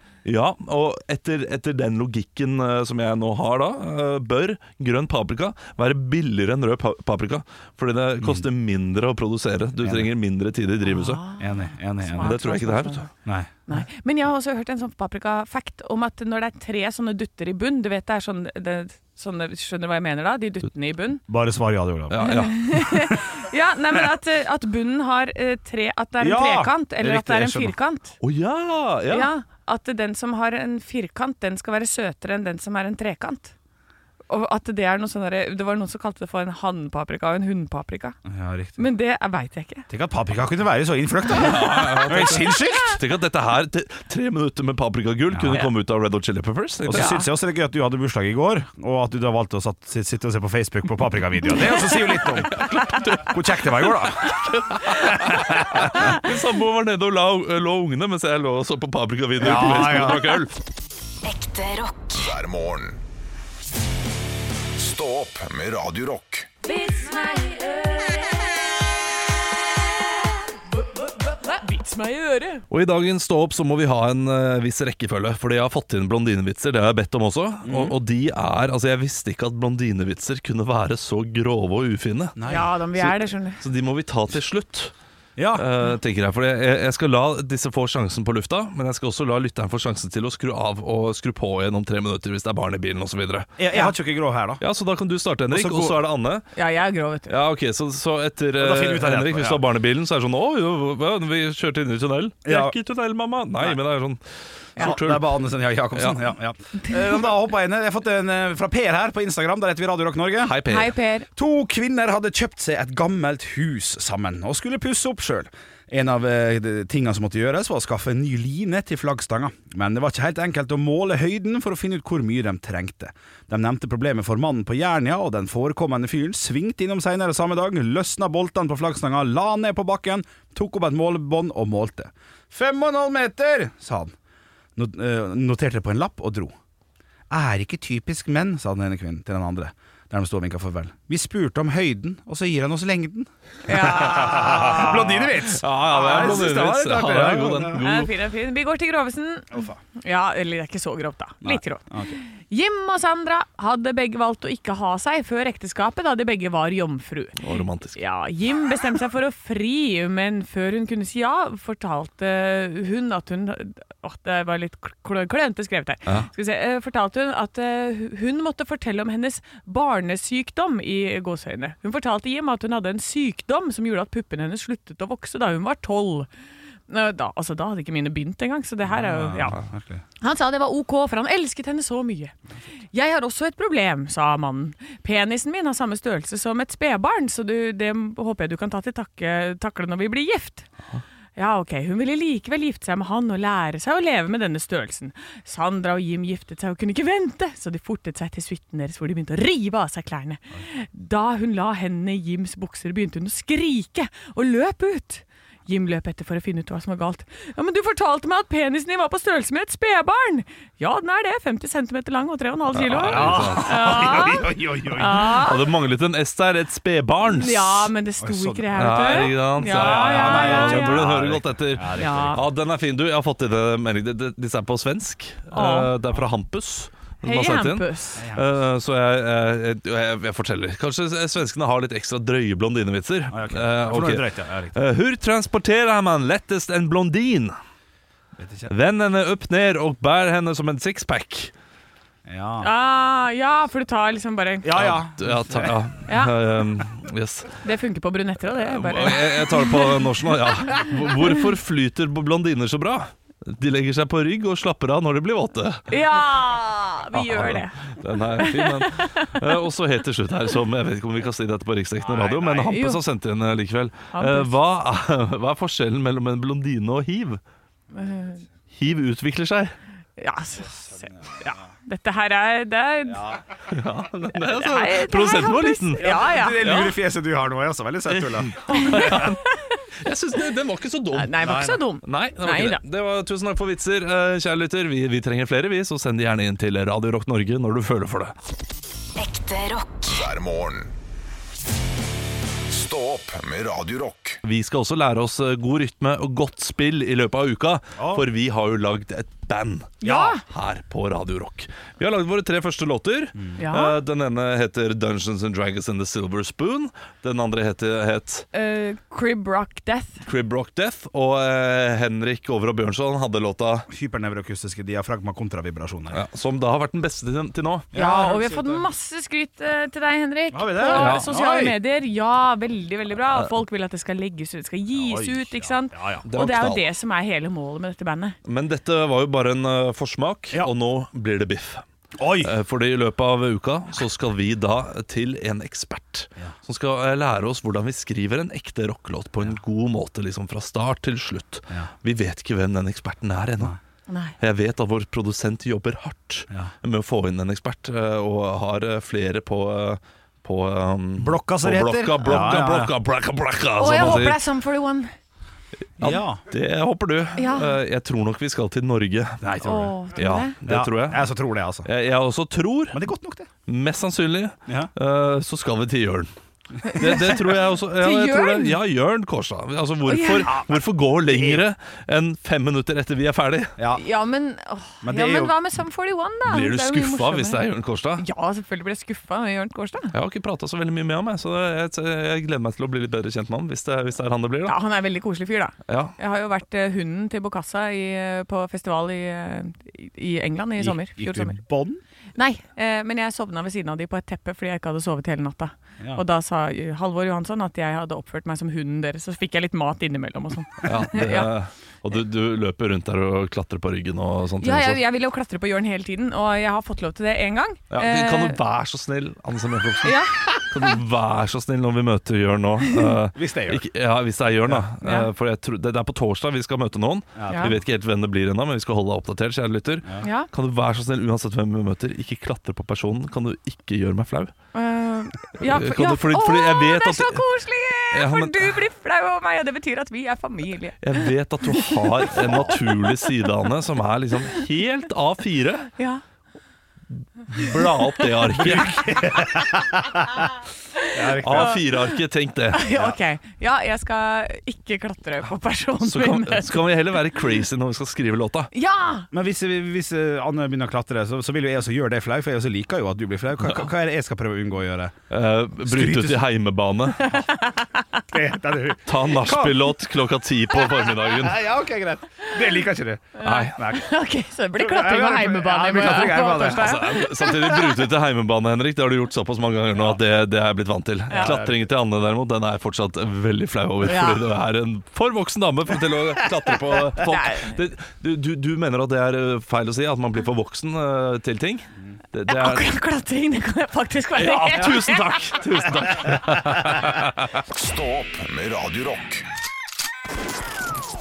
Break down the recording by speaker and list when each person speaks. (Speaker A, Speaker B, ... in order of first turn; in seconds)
Speaker A: 0.2-11.2, 12.2-13.1, 22.1-22.6, 28.2-29.3, 41.4-47.1, 51.9-60.5, 72.7-82.3, 83.0-84.9, 85.5-93.5, 94.6-96.5, 97.3-104.2, 104.7-105.4, 105.9-106.2, 110.4-110.9, 144.7-148.1, 157.4-158.0, 212.7-214.0, 215.3-217.9, 218.7-237.5, 238.7-241.5, 244.7-247.6, 248.6-255.8, 257.1-267.4, 268.7-269.7, 273.7-276.9, 278.1-279.5, 280.0-288.3, 294.4-308.5, 310.2-313.9, 316.1-317.9, 320.9-321.7, 323.3-323.5, 326.2-326.8, 328.4-331.8, 332.4-343.8, 344.4-354.4, 356.0-359.4, 360.1-361.3, 361.8-363.0, 363.7-366.3, 366.8-373.7, 376.5-378.2, 380.1-384.8, 385.9-386.1, 400.8-405.0, 407.9-424.5, 425.6-427.4, 428.1-428.7, 431.0-435.9, 437.5-439.1, 441.4-442.9, 446.0-448.7, 455.3-457.4, 459.1-461.7, 463.4-463.8, 466.6-482.9, 484.4-487.5
Speaker B: 8.2-8.4, 9.8-10.1, 11.4-12.4, 13.2-13.5, 21.3-22.4, 26.2-27.7, 38.2-38.9, 39.9-43.0, 45.3-45.6, 46.8-54.5, 55.0-56.1, 59.4-60.4, 77.6-78.0, 82.3-82.7, 85.4-85.7, 93.6-94.6, 95.5-96.0, 98.6-99.6, 102.4-102.8, 104.8-110.6, 111.3-134.1, 134.8-136.5, 137.3-147.8, 149.5-149.8, 151.4-152.2, 178.9-180.0, 213.0-215.4, 218.2-218.9, 219.6-222.5, 228.2-228.5, 233.3-234.8, 238.4-238.7, 242.2-242.7, 244.6-245.7, 262.0-262.7, 270.8-271.5, 276.0-279.2, 281.4-281.8, 298.0-298.2, 300.0-300.3, 313.9-316.2, 317.9-318.8, 320.5-321.7, 324.9-326.2, 332.1-332.5, 351.2-352.9, 356.0-356.4, 359.4-360.0, 360.6-361.9, 362.9-363.5, 371.3-371.6, 375.0-375.5, 390.8-392.0, 413.3-413.8, 417.4-417.7, 438.6-440.4, 441.1-441.8, 442.9-443.2, 449.3-455.2, 455.8-456.5, 458.3-459.8, 461.3-464.1, 464.8-467.0, 471.4-471.9
Speaker C: 10.9-13.1, 13.7-21.2, 22.2-28.2, 29.1-33.5, 34.3-38.2, 38.8-39.9, 41.4-42.6, 46.9-47.3, 66.6-68.2, 71.2-72.6, 82.5-83.6, 96.5-97.3, 110.7-111.3, 143.7-144.9, 147.8-157.4, 157.9-176.3, 176.9-179.6, 180.2-182.3, 182.9-190.7, 191.3-215.6, 217.3-221.1, 222.0-222.4, 225.5-225.9, 227.2-228.2, 242.6-244.7, 246.1-246.3, 247.6-250.0, 250.7-251.3, 255.9-257.7, 258.4-259.3, 262.6-263.0, 264.1-264.6, 267.9-268.4, 270.2-273.4, 274.3-276.9, 278.7-279.6, 281.1-282.8, 300.0-300.4, 303.6-304.0, 308.5-310.2, 317.9-328.4, 344.1-344.3, 353.8-355.1, 357.4-357.8, 359.6-360.5, 366.8-368.8, 370.1-370.5, 373.9-377.6, 378.2-380.1, 384.6-391.6, 392.3-401.5, 404.6-408.6, 410.0-410.6, 415.0-415.3, 417.5-417.7, 420.2-420.5, 424.7-433.3, 441.3-441.9, 442.7-446.9, 448.7-449.3, 457.3-458.2, 463.4-468.0, 471.3-471.5, 474.0-474.4, 477.2-477.8, 482.5-485.3
Speaker D: 61.2-62.2, 289.2-290.2
Speaker E: 62.1-63.0, 64.8-66.5, 290.1-290.9, 292.7-294.4, 487.7-489.4